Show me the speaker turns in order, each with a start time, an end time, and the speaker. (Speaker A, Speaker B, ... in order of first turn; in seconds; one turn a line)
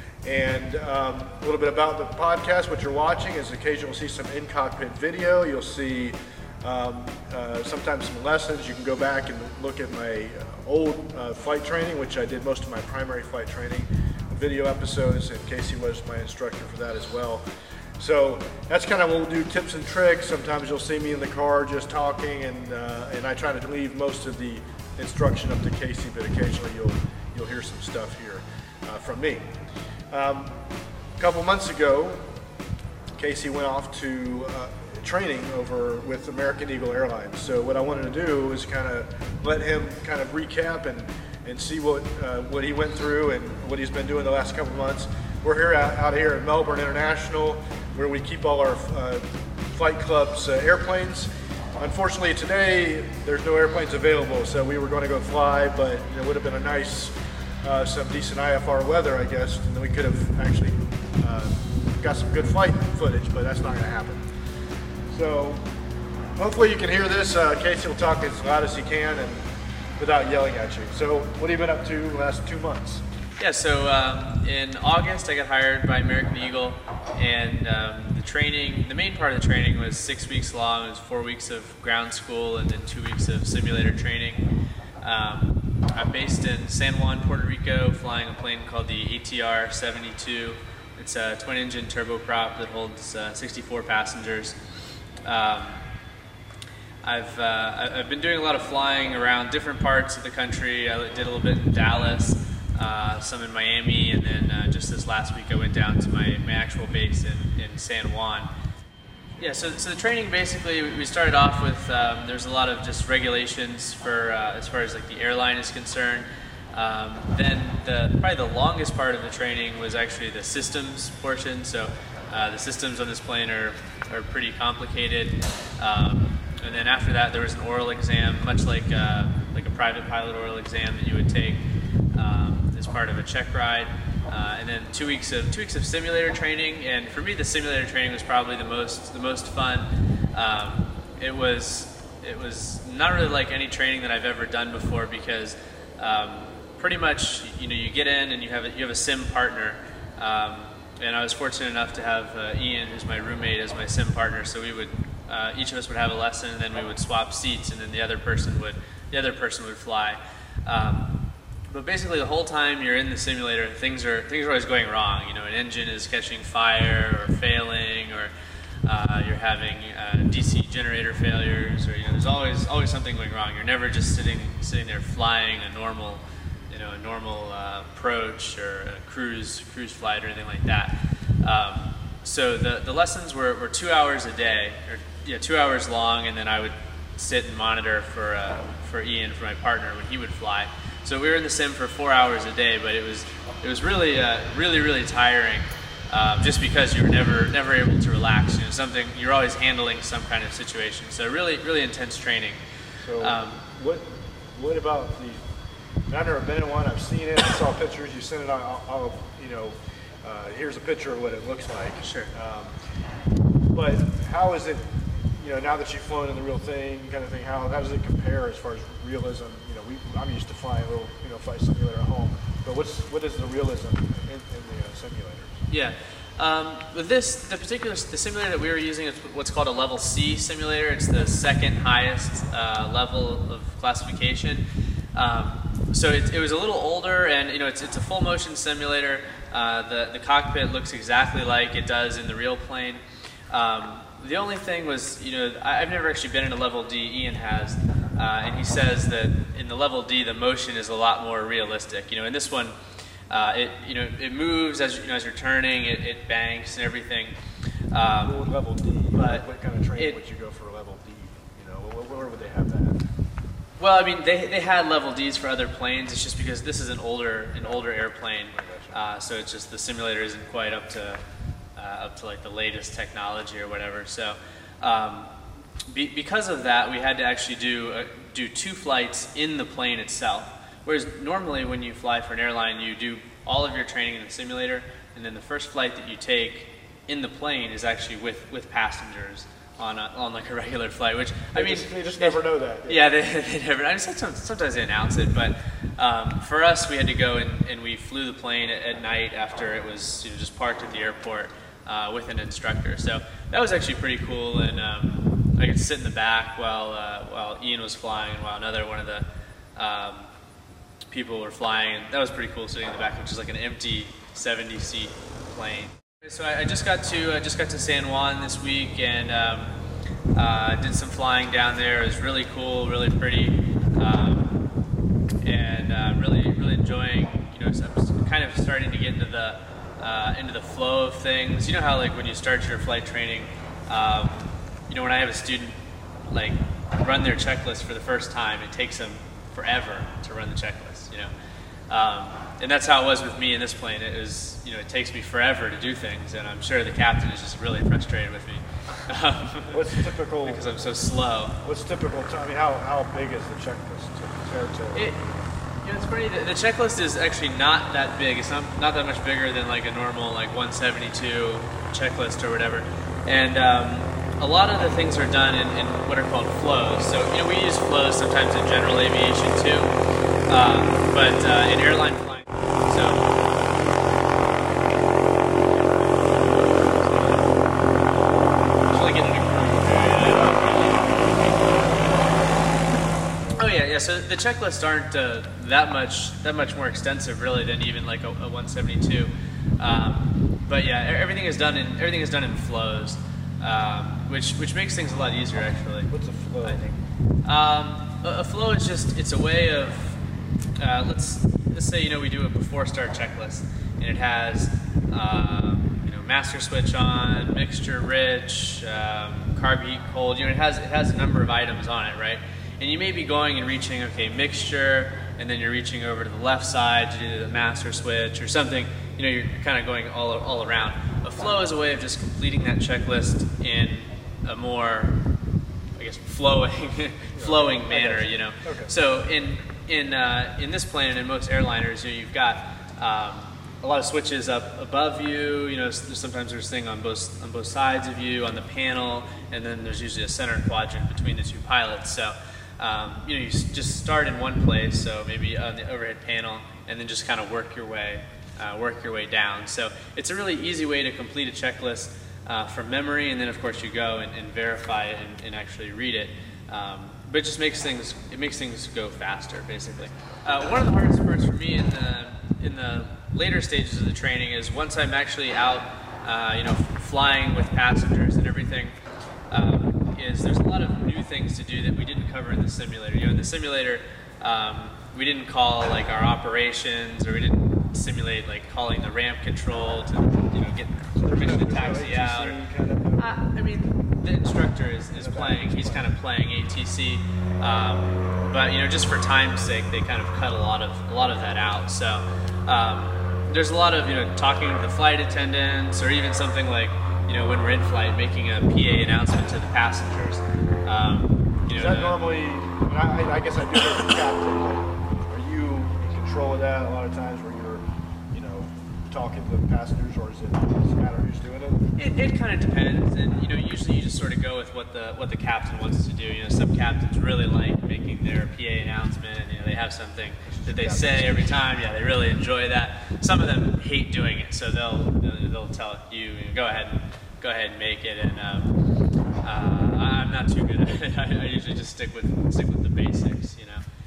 Speaker A: 0.2-17.4
Speaker A: 18.0-29.4
Speaker A: 30.1-30.5
Speaker A: 31.2-32.2
Speaker A: 33.2-57.1
Speaker A: 57.6-64.2
Speaker A: 65.1-65.6
Speaker A: 66.4-69.4
Speaker A: 70.0-73.0
Speaker B: 73.4-84.4
Speaker B: 85.0-94.6
Speaker B: 95.2-95.8
Speaker B: 97.0-108.5
Speaker B: 109.4-161.1
Speaker B: 161.7-168.3
Speaker B: 168.8-202.6
Speaker A: 203.0-205.4
Speaker B: 203.2-203.6
Speaker A: 206.1-212.7
Speaker B: 212.0-212.3
Speaker A: 213.7-214.8
Speaker A: 215.4-225.6
Speaker B: 225.7-234.6
Speaker B: 235.1-252.8
Speaker B: 253.3-257.3
Speaker B: 257.9-258.4
Speaker A: 258.2-263.0
Speaker B: 259.1-260.2
Speaker B: 263.8-271.2
Speaker A: 268.5-268.9
Speaker B: 271.8-275.3
Speaker B: 275.9-310.3
Speaker A: 291.5-293.0
Speaker B: 311.1-319.7
Speaker B: 320.3-324.6
Speaker B: 325.4-335.8
Speaker B: 336.3-341.3
Speaker B: 341.9-349.8
Speaker A: 349.7-350.7
Speaker B: 350.4-351.6
Speaker A: 351.6-355.2
Speaker B: 354.9-355.3
Speaker B: 355.8-369.9
Speaker B: 370.5-373.3
Speaker B: 376.3-377.5
Speaker B: 378.9-382.2
Speaker A: 383.4-383.8
Speaker B: 383.6-396.1
Speaker A: 396.1-396.8
Speaker B: 396.6-400.2
Speaker B: 400.8-425.2
Speaker B: 425.9-468.9
Speaker A: 427.3-428.9
Speaker B: 469.5-482.6
Speaker A: 481.2-483.4
Speaker B: 483.2-502.2
Speaker A: 485.2-486.1
Speaker A: 501.7-511.8
Speaker B: 511.9-528.7
Speaker A: 520.5-521.6
Speaker B: 529.4-533.8